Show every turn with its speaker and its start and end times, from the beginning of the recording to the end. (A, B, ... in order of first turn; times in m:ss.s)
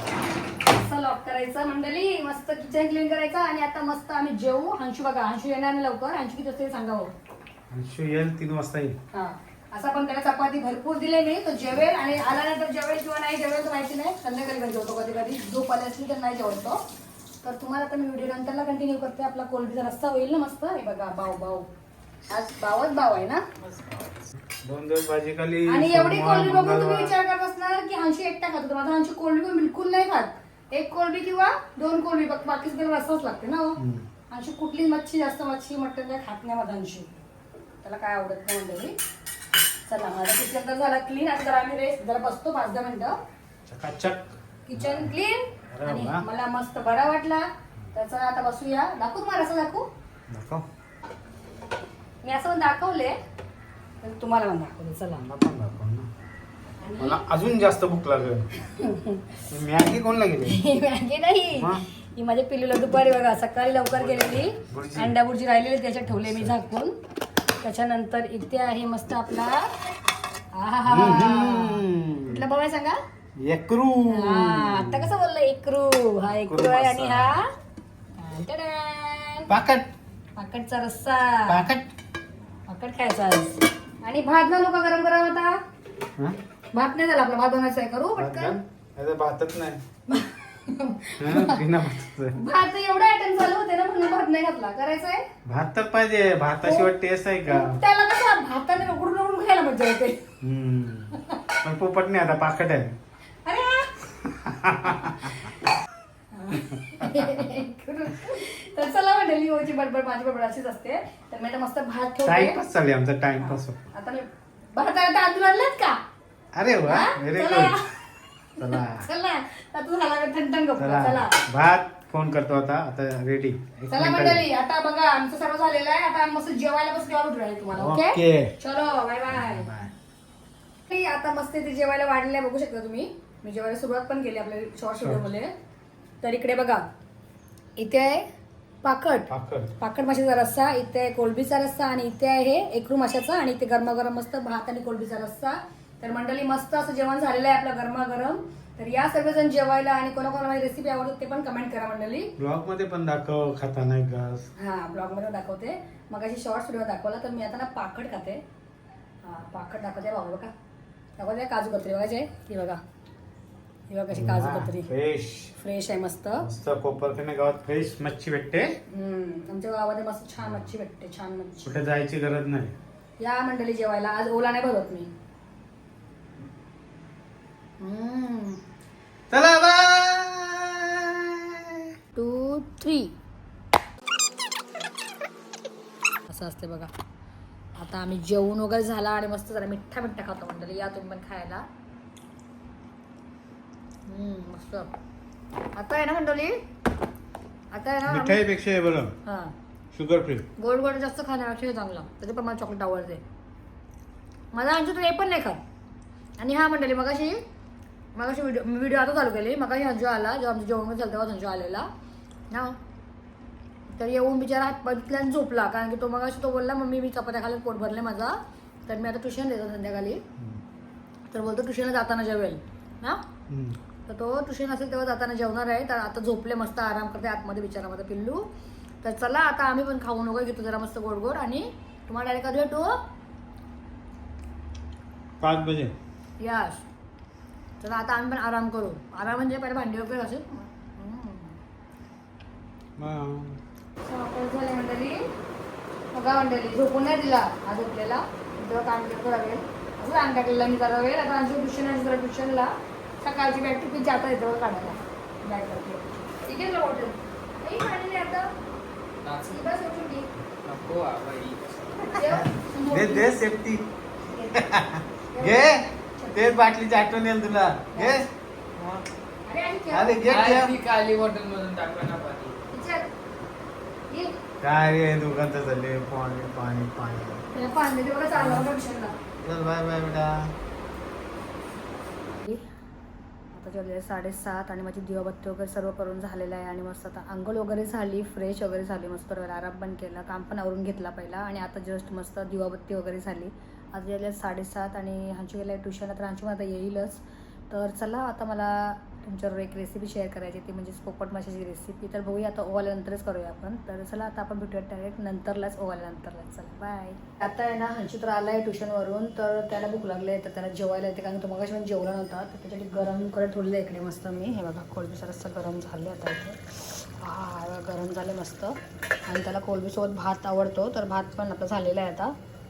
0:00.6-0:07.1 A
0:07.7-0:09.0 B
0:09.1-0:16.8 A
0:17.4-0:21.7 A
0:22.3-0:23.4 A
0:23.6-0:27.2 B
0:25.7-0:33.8 A
0:33.8-0:34.0 B
0:34.3-0:37.2 A
0:37.8-0:38.9 A
0:39.9-0:43.2 A
0:43.7-0:45.1 B
0:44.7-0:49.9 A
0:45.7-0:46.2 B
0:50.3-0:50.6 B
0:52.2-0:53.1 A
0:54.0-0:55.2 A
0:55.2-0:56.1 B
0:56.8-0:57.3 A
0:57.0-0:58.5 B
0:58.6-0:59.4 A
0:59.5-1:00.6 B
1:00.4-1:07.0 A
1:01.5-1:01.8 B
1:03.9-1:05.1 B
1:06.1-1:06.6 B
1:07.6-1:09.7 A
1:10.5-1:13.0 A
1:10.9-1:12.4 B
1:13.4-1:15.1 B
1:14.1-1:17.5 A
1:16.4-1:17.4 B
1:18.2-1:19.5 A
1:19.5-1:19.9 B
1:20.4-1:21.6 A
1:21.5-1:21.9 B
1:22.7-1:25.6 A
1:26.7-1:28.6 A
1:28.2-1:29.8 B
1:30.1-1:31.6 A
1:31.2-1:32.4 B
1:32.3-1:35.2 A
1:35.4-1:37.8 B
1:36.6-1:36.9 A
1:37.4-1:40.3 A
1:40.4-1:42.9 B
1:41.1-1:41.4 A
1:43.4-1:44.0 A
1:44.2-1:45.4 B
1:44.8-1:45.5 A
1:46.3-1:52.6 A
1:52.2-1:53.8 B
1:53.4-1:54.2 A
1:54.8-1:56.0 A
1:56.6-1:57.8 B
1:56.8-2:01.4 A
1:58.6-1:59.0 B
2:00.8-2:04.4 B
2:03.9-2:09.7 A
2:07.8-2:08.5 B
2:09.4-2:09.9 B
2:10.9-2:15.5 A
2:16.2-2:16.8 A
2:17.8-2:18.2 A
2:18.8-2:32.3 A
2:19.3-2:19.7 B
2:32.4-2:34.5 B
2:34.6-2:38.4 A
2:39.2-2:40.5 A
2:41.2-2:42.8 A
2:43.9-2:44.9 A
2:44.1-2:45.5 B
2:45.6-2:46.4 A
2:46.4-2:48.7 B
2:48.9-2:51.7 A
2:51.6-2:52.7 B
2:53.2-2:55.1 A
2:57.8-2:58.6 A
2:59.3-3:01.9 B
3:02.1-3:03.1 A
3:06.3-3:06.9 A
3:07.8-3:11.6 A
3:14.1-3:14.9 A
3:15.8-3:16.6 A
3:17.7-3:18.4 A
3:18.0-3:19.1 B
3:19.2-3:19.5 A
3:19.9-3:20.4 B
3:20.6-3:23.2 A
3:24.5-3:25.6 A
3:26.4-3:27.4 A
3:28.1-3:31.9 A
3:32.5-3:32.8 A
3:33.9-3:40.2 A
3:41.3-3:43.2 A
3:43.5-3:43.8 B
3:44.1-3:48.5 A
3:49.0-3:53.0 A
3:55.4-3:55.9 B
3:56.4-3:56.8 A
3:57.8-4:01.6 A
4:03.0-4:03.6 B
4:04.0-4:05.2 A
4:06.1-4:18.5 A
4:19.2-4:19.7 C
4:19.4-4:20.3 A
4:20.6-4:22.2 C
4:22.0-4:23.3 A
4:22.9-4:23.9 B
4:24.2-4:24.6 A
4:24.6-4:28.3 B
4:25.3-4:26.5 A
4:27.9-4:28.2 A
4:29.4-4:30.3 A
4:29.9-4:30.8 B
4:30.2-4:32.5 C
4:32.7-4:33.1 A
4:34.6-4:37.4 B
4:37.5-4:39.1 A
4:38.3-4:38.7 B
4:39.4-4:40.5 B
4:42.4-4:42.6 A
4:43.5-5:18.8 A
5:19.3-5:22.3 A